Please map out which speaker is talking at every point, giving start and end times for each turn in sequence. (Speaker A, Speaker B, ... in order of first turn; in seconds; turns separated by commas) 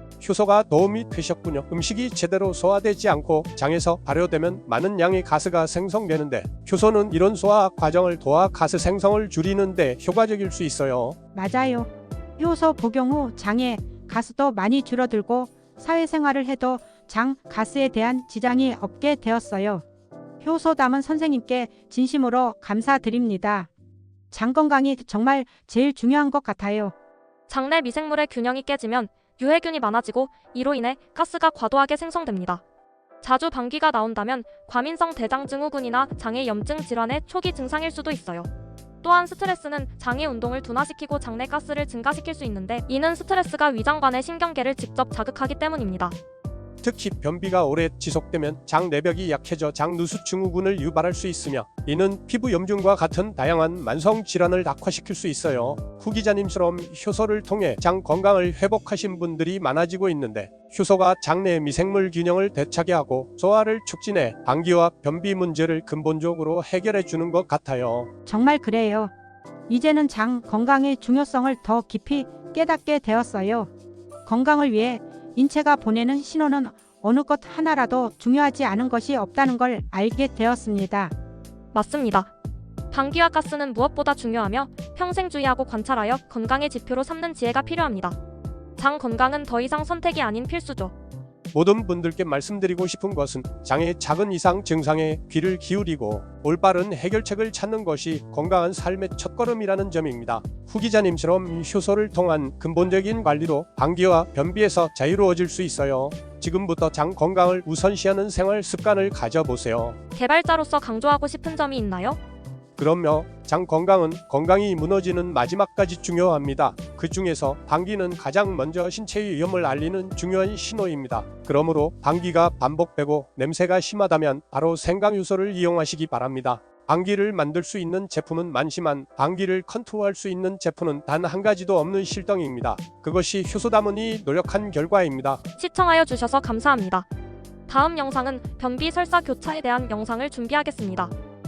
Speaker A: 0.2-11.2, Speaker B: 11.3-19.8, Speaker B: 20.4-23.7, Speaker B: 24.3-26.9, Speaker C: 27.5-32.6, Speaker C: 33.2-38.5, Speaker C: 39.0-46.2, Speaker A: 46.8-68.1, Speaker B: 68.3-69.1, Speaker B: 69.7-73.7, Speaker B: 74.3-81.1, Speaker C: 81.7-82.3, Speaker C: 82.9-88.2, Speaker C: 88.8-90.9, Speaker A: 91.5-110.0, Speaker C: 110.2-112.2, Speaker A: 112.8-135.4, Speaker C: 135.6-137.1, Speaker C: 137.7-141.1